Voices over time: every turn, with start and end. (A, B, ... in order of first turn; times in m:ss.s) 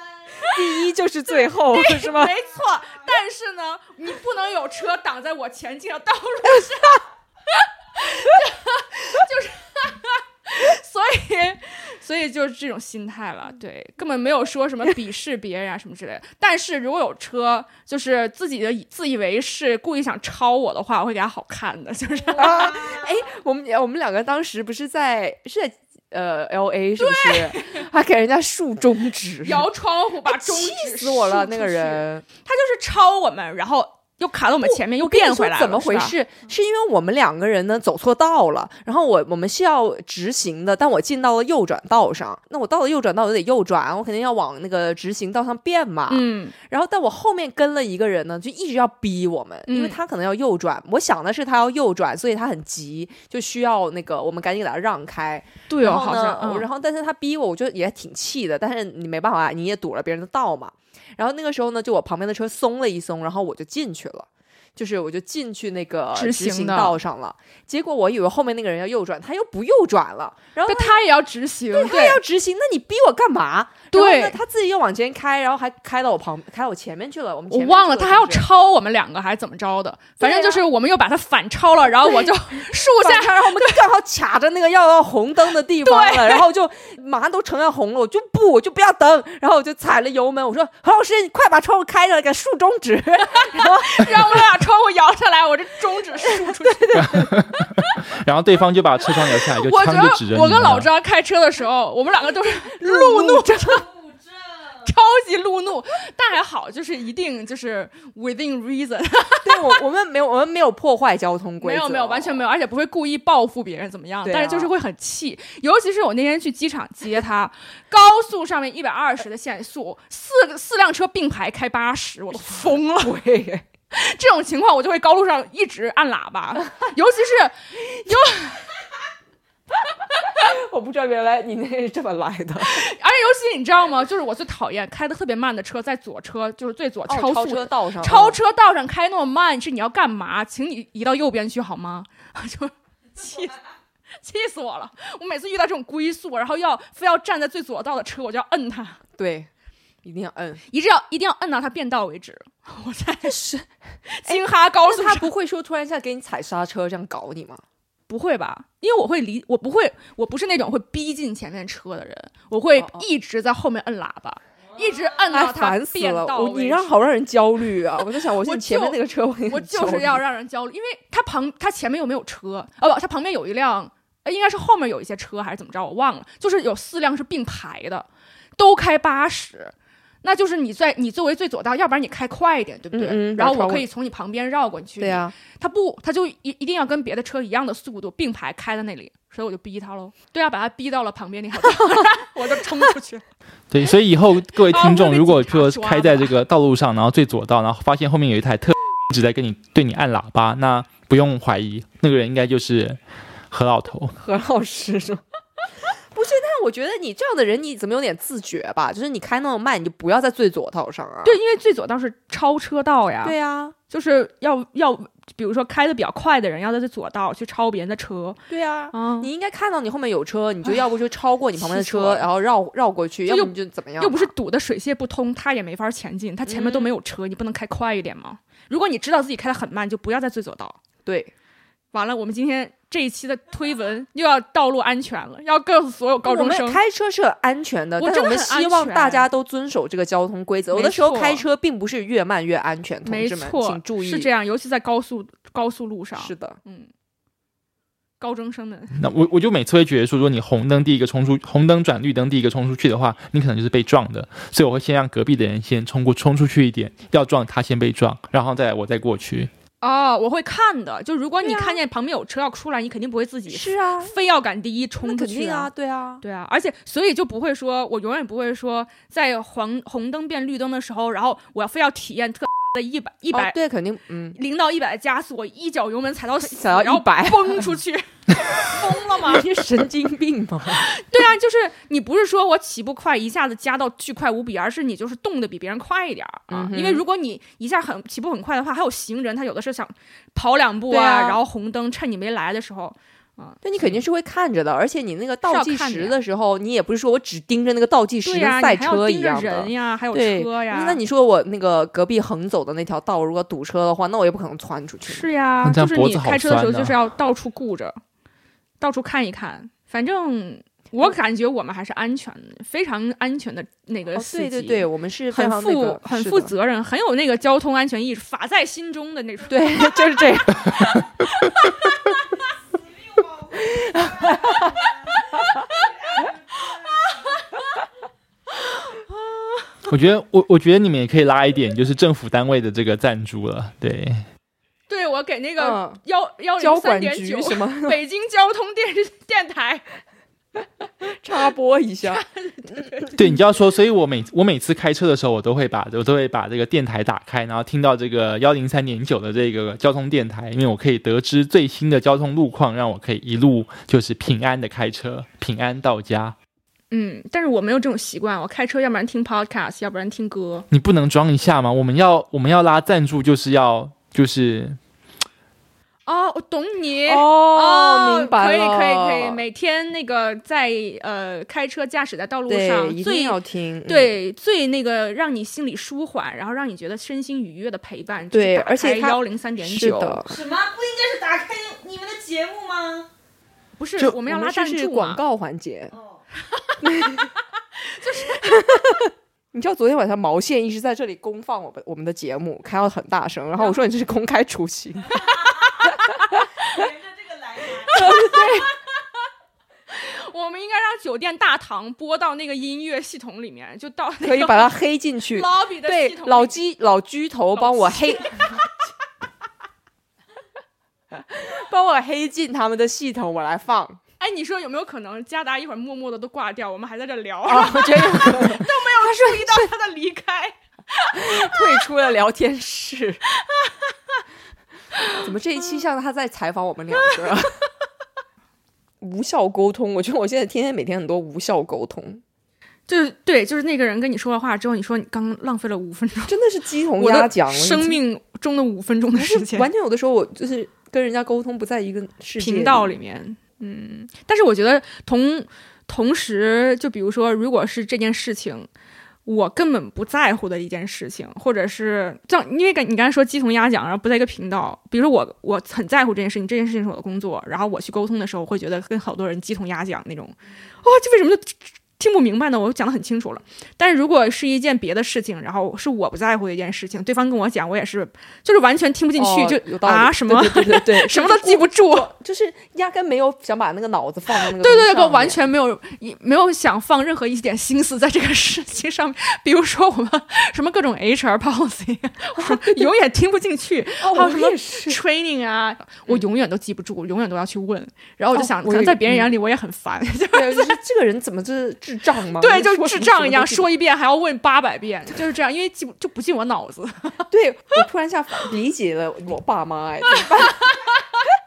0:00.4-0:02.4 A
0:01.4-0:23.0 B
0:22.3-0:29.7 A
0:27.0-0:27.8 B
0:29.4-0:36.1 B
0:30.2-0:32.2 A
0:34.6-1:11.0 A
0:46.1-0:46.5 B
0:49.7-0:50.0 B
0:55.7-0:56.7 B
1:06.1-1:07.0 B
1:10.6-1:12.2 B
1:11.7-1:18.5 A
1:13.9-1:14.4 B
1:17.5-1:23.9 B
1:20.2-1:20.6 A
1:22.0-1:22.3 A
1:22.9-1:34.4 A
1:25.8-1:26.4 B
1:33.3-1:37.0 B
1:36.2-1:37.3 A
1:36.9-1:40.9 C
1:39.5-1:43.9 B
1:42.8-1:43.7 A
1:44.8-1:49.8 B
1:49.4-1:52.4 A
1:51.6-2:03.2 B
1:54.2-1:54.7 A
2:03.0-2:03.6 A
2:03.9-2:08.6 B
2:10.1-2:12.8 A
2:12.6-2:23.6 B
2:17.1-2:18.4 A
2:24.2-2:29.0 B
2:29.2-2:29.5 A
2:30.0-2:30.6 A
2:30.7-2:33.5 B
2:33.2-2:33.6 A
2:34.1-2:35.3 B
2:34.2-2:37.6 A
2:38.1-2:46.9 B
2:42.8-2:43.1 A
2:45.3-2:50.2 A
2:48.3-3:13.2 B
3:02.9-3:03.8 A
3:05.0-3:05.3 A
3:13.7-3:24.1 C
3:14.6-3:16.3 B
3:24.1-3:25.2 A
3:25.9-3:31.4 A
3:31.2-3:33.4 B
3:33.2-3:33.8 A
3:33.9-3:38.4 B
3:38.5-3:44.3 A
3:38.9-3:39.3 B
3:41.6-3:42.3 B
3:43.2-3:50.8 B
3:46.4-3:46.9 A
3:51.0-3:51.3 A
3:51.9-3:56.8 B
3:56.2-4:04.3 A
3:58.0-3:59.3 B
4:00.7-4:01.4 B
4:03.0-4:06.9 B
4:06.2-4:06.6 A
4:08.2-4:09.0 B
4:09.0-4:19.5 C
4:19.8-4:25.7 B
4:21.4-4:21.8 A
4:23.5-4:24.1 A
4:25.0-4:26.2 A
4:26.2-4:33.5 B
4:33.3-4:34.4 A
4:34.3-4:39.7 B
4:36.4-4:37.7 A
4:38.6-4:40.9 A
4:40.7-4:53.6 B
4:46.5-4:47.0 A
4:50.9-4:51.4 A
4:53.6-5:05.2 A
4:55.5-4:56.2 B
4:58.2-5:01.0 B
5:05.0-5:08.0 B
5:05.6-5:07.0 C
5:08.8-5:20.4 B
5:14.1-5:16.5 A
5:19.5-5:21.0 A
5:23.5-5:24.9 A
5:28.6-5:29.7 B
5:29.9-5:34.2 C
5:34.9-5:39.8 B
5:35.6-5:36.0 A
5:36.6-5:38.0 A
5:41.0-5:42.2 A
5:42.0-5:43.3 B
5:43.1-5:56.4 C
5:56.9-6:00.6 B
6:00.7-6:04.8 C
6:06.0-6:20.2 B
6:07.0-6:09.4 A
6:12.5-6:14.1 A
6:18.3-6:20.4 A
6:20.2-6:23.1 D
6:23.8-6:25.2 B
6:24.0-6:25.9 A
6:25.9-6:26.2 D
6:26.8-6:27.3 A
6:27.8-6:28.6 B
6:28.3-6:36.2 A
6:36.7-6:38.1 D
6:37.7-6:38.7 B
6:37.9-6:38.7 A
6:39.9-6:44.7 B
6:44.2-6:48.6 A
6:45.3-6:46.6 B
6:47.5-6:48.6 B
6:51.1-6:54.0 A
6:54.2-7:01.8 B
6:57.4-6:59.7 A
7:01.1-7:03.2 A
7:03.4-7:03.9 B
7:04.9-7:05.2 B
7:05.2-7:07.5 A
7:09.0-7:12.2 A
7:12.9-7:16.4 B
7:16.3-7:18.0 A
7:17.0-7:19.7 B
7:19.1-7:22.9 A
7:22.4-7:28.7 B
7:29.2-7:52.1 B
7:49.1-7:55.4 A
7:54.4-8:10.8 B
8:02.4-8:02.9 A
8:04.0-8:05.0 A
8:08.3-8:09.3 A
8:10.3-8:13.7 A
8:12.4-8:17.2 B
8:17.3-8:20.9 A
8:20.1-8:21.0 B